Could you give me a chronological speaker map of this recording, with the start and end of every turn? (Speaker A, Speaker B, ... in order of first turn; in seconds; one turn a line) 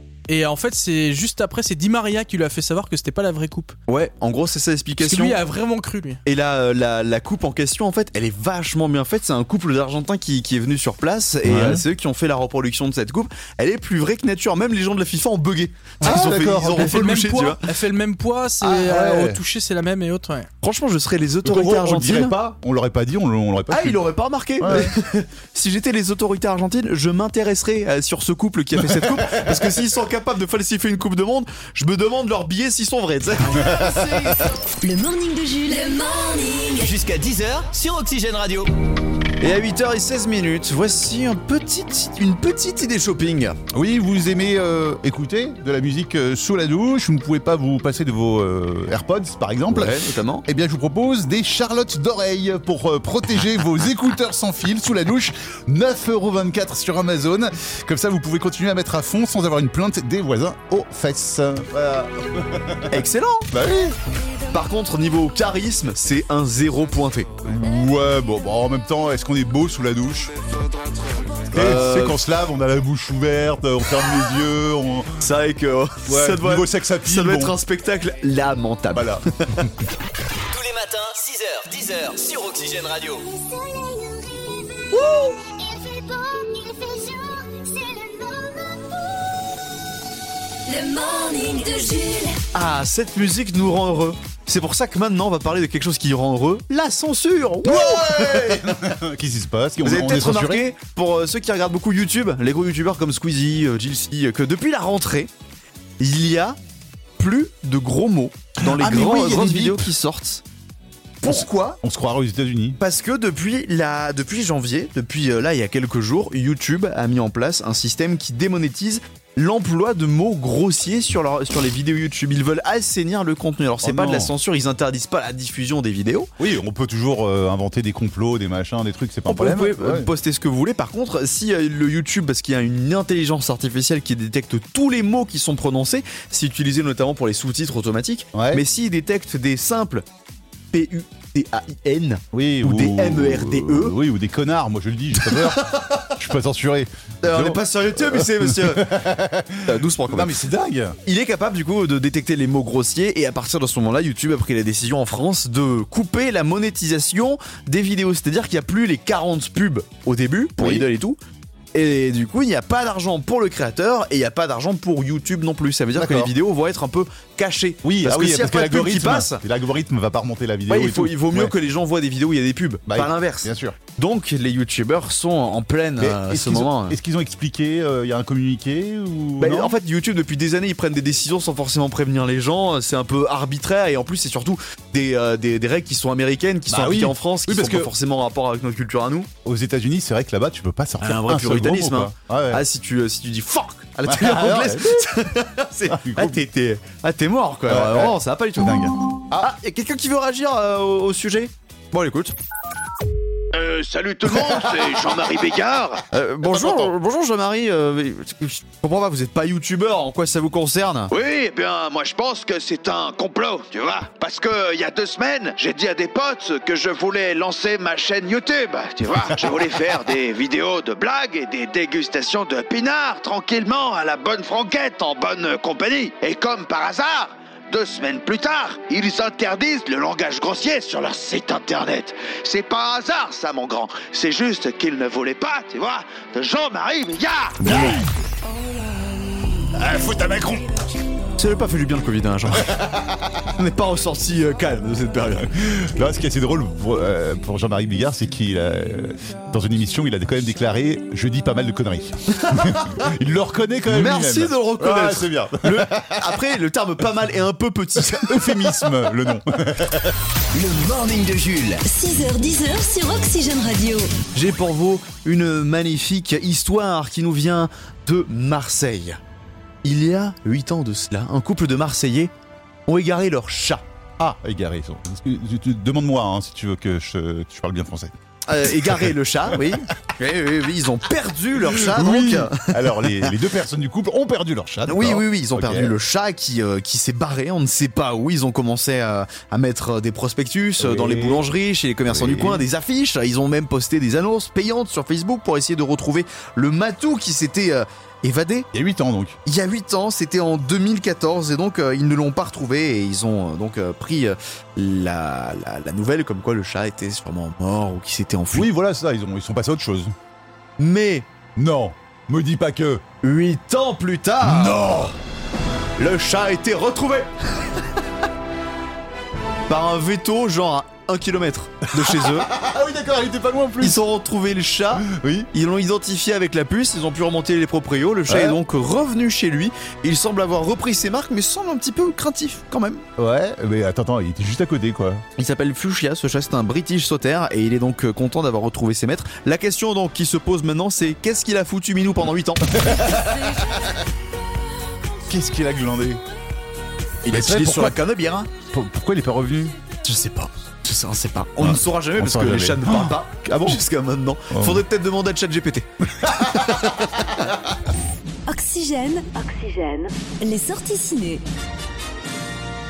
Speaker A: 0.3-3.7
Speaker B: 3.9-5.4
Speaker A: 5.0-6.2
Speaker B: 6.2-17.6
Speaker C: 11.4-11.8
Speaker C: 16.0-17.0
Speaker A: 16.0-20.5
Speaker C: 18.6-19.4
Speaker B: 20.6-22.4
Speaker C: 21.4-24.0
Speaker B: 23.7-33.7
Speaker C: 24.6-24.9
Speaker C: 28.8-29.8
Speaker C: 33.6-34.3
Speaker D: 33.6-36.9
Speaker E: 36.8-38.7
Speaker B: 39.4-43.6
Speaker C: 43.7-64.0
Speaker B: 49.7-50.4
Speaker B: 62.9-63.5
Speaker B: 64.5-67.3
Speaker C: 67.4-70.3
Speaker C: 71.5-75.2
Speaker B: 71.5-72.2
Speaker B: 75.2-79.7
Speaker C: 76.0-77.6
Speaker C: 78.9-79.7
Speaker E: 80.5-83.2
Speaker B: 84.9-85.3
Speaker D: 90.7-92.4
Speaker B: 92.5-98.7
Speaker C: 97.6-100.7
Speaker B: 99.8-105.3
Speaker B: 106.0-106.6
Speaker B: 107.2-110.4
Speaker C: 108.6-109.9
Speaker B: 111.2-111.8
Speaker C: 111.2-112.8
Speaker B: 112.8-126.3
Speaker C: 123.8-124.3
Speaker C: 126.4-130.1
Speaker B: 129.2-140.1
Speaker C: 138.3-138.6
Speaker B: 140.7-143.9
Speaker C: 142.3-151.0
Speaker B: 145.2-146.1
Speaker B: 147.2-149.0
Speaker B: 149.6-150.4
Speaker B: 151.0-161.2
Speaker C: 160.6-160.8
Speaker B: 161.7-169.4
Speaker C: 166.0-166.3
Speaker C: 167.8-171.5
Speaker B: 170.7-176.9
Speaker C: 172.9-173.8
Speaker C: 176.0-179.8
Speaker B: 179.4-189.3
Speaker C: 186.7-187.9
Speaker C: 189.4-192.6
Speaker B: 191.0-202.3
Speaker C: 194.1-195.1
Speaker C: 195.9-196.4
Speaker C: 197.7-199.5
Speaker F: 203.5-206.0
Speaker B: 204.5-204.9
Speaker B: 206.1-211.1
Speaker C: 206.4-206.9
Speaker F: 211.1-237.6
Speaker B: 219.3-219.9
Speaker C: 237.6-238.1
Speaker B: 237.7-238.0
Speaker C: 239.7-240.7
Speaker B: 241.4-242.8
Speaker C: 242.5-243.5
Speaker B: 243.6-245.5
Speaker C: 245.6-256.4
Speaker B: 253.9-258.7
Speaker C: 258.1-260.2
Speaker E: 260.5-261.8
Speaker D: 261.8-264.1
Speaker B: 264.3-269.2
Speaker B: 269.8-272.3
Speaker B: 272.9-273.8
Speaker C: 274.2-278.1
Speaker B: 278.5-283.3
Speaker C: 278.7-279.0
Speaker C: 281.6-285.9
Speaker B: 284.9-298.7
Speaker C: 290.8-291.4
Speaker C: 292.1-292.6
Speaker C: 298.7-299.4
Speaker B: 299.4-308.7
Speaker C: 308.5-310.1
Speaker B: 310.8-311.3
Speaker C: 311.6-313.0
Speaker B: 313.2-314.9
Speaker C: 314.4-315.1
Speaker B: 316.0-317.3
Speaker B: 319.7-322.5
Speaker C: 322.0-324.0
Speaker B: 323.8-333.0
Speaker C: 325.0-325.5
Speaker C: 328.3-328.6
Speaker C: 333.2-335.2
Speaker B: 335.4-343.2
Speaker C: 342.8-343.6
Speaker C: 345.3-346.2
Speaker B: 347.2-348.5
Speaker C: 347.3-348.0
Speaker C: 348.7-349.8
Speaker B: 350.0-357.3
Speaker C: 351.6-353.8
Speaker C: 354.5-354.8
Speaker C: 356.2-357.1
Speaker D: 358.5-361.4